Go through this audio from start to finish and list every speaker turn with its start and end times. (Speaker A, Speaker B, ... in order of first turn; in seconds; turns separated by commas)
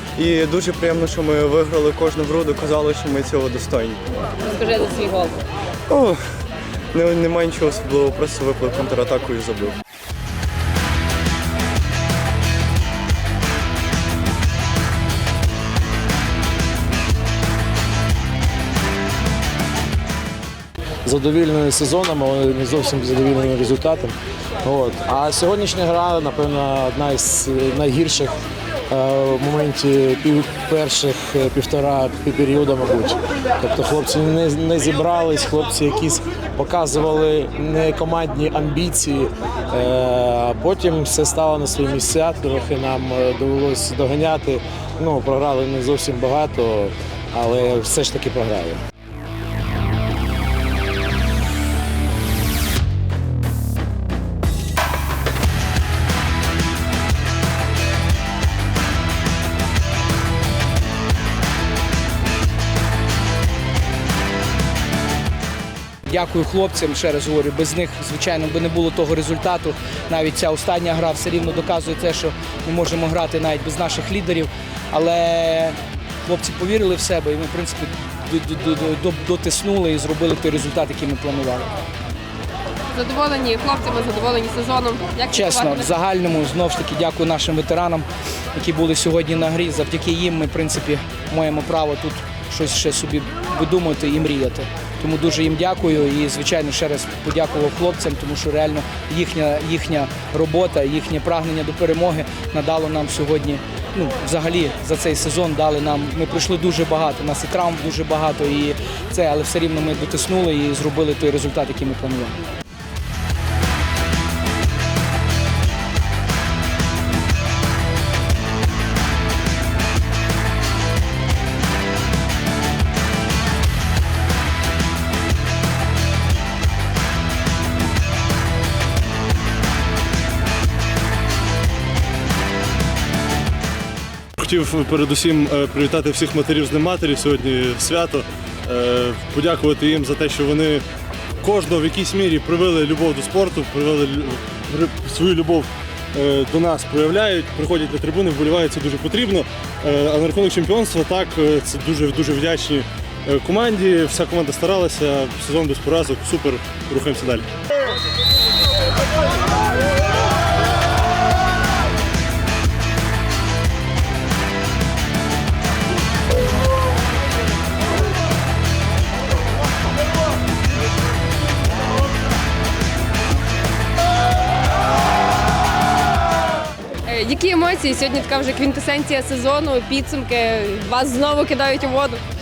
Speaker A: 0.1-4.0, Speaker B: 4.5-5.3, Speaker A: 5.9-6.2, Speaker A: 6.9-9.8, Speaker C: 21.0-28.3, Speaker C: 28.9-48.8, Speaker D: 66.0-81.7, Speaker B: 82.9-85.8, Speaker D: 85.3-112.4, Speaker E: 134.4-140.8, Speaker E: 141.4-157.5, Speaker B: 177.1-182.2